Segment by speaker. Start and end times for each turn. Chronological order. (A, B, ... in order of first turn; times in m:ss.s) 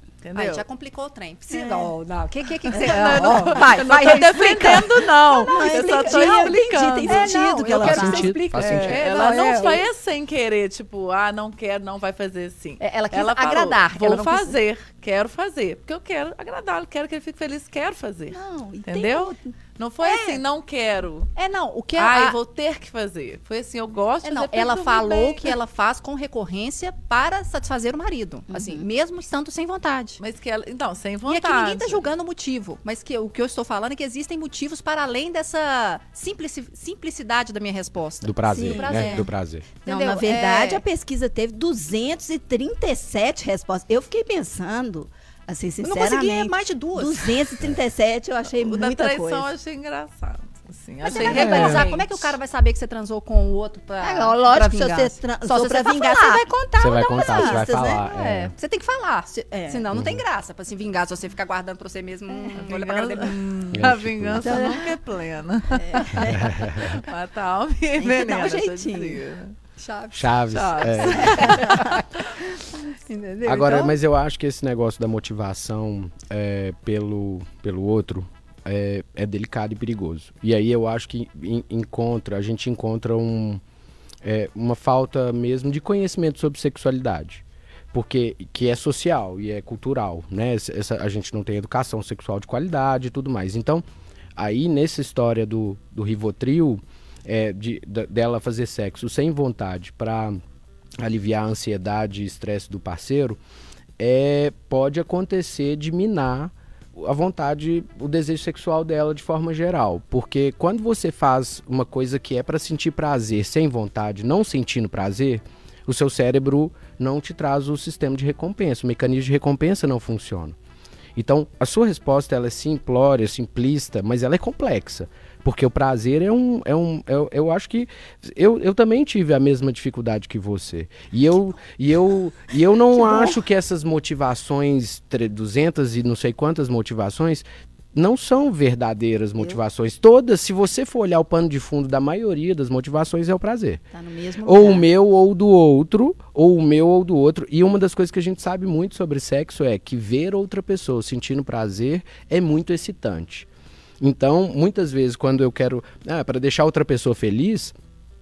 0:00.2-0:00.6 A
0:00.3-0:09.9 B
0:01.5-0:01.9 C
0:02.7-0:07.3 A
0:02.9-0:03.8 C
0:04.7-0:08.4 C
0:07.7-0:09.0 D
0:08.5-0:21.3 A
0:12.8-0:14.6 B
0:18.3-0:19.5 C
0:20.0-0:20.4 B
0:21.4-0:22.4 B
0:22.0-0:25.6 A
0:24.2-0:30.2 B
0:28.5-0:28.8 C
0:30.2-0:32.0 A
0:31.2-0:39.3 B
0:38.2-0:39.7 D
0:38.5-0:39.3 C
0:39.8-0:40.8 B
0:39.8-0:49.5 C
0:45.8-0:47.4 B
0:48.5-0:52.3 A
0:51.0-1:03.4 B
0:51.1-0:51.8 C
0:51.3-0:51.8 D
0:54.0-0:58.0 C
0:56.8-0:58.5 D
0:59.4-1:00.0 C
0:59.9-1:00.2 D
1:02.6-1:09.5 A
1:03.7-1:04.5 D
1:04.4-1:04.9 C
1:05.8-1:06.6 C
1:06.4-1:07.0 D
1:08.0-1:09.2 C
1:09.8-1:13.9 B
1:10.1-1:11.7 D
1:10.5-1:12.2 A
1:13.4-1:23.6 D
1:24.2-1:33.8 D
1:34.4-1:40.4 D
1:41.0-1:43.4 D
1:44.0-2:00.6 D
2:01.2-2:23.8 D
2:13.0-2:13.3 C
2:23.9-2:24.8 C
2:24.4-2:33.5 D
2:34.0-2:37.7 D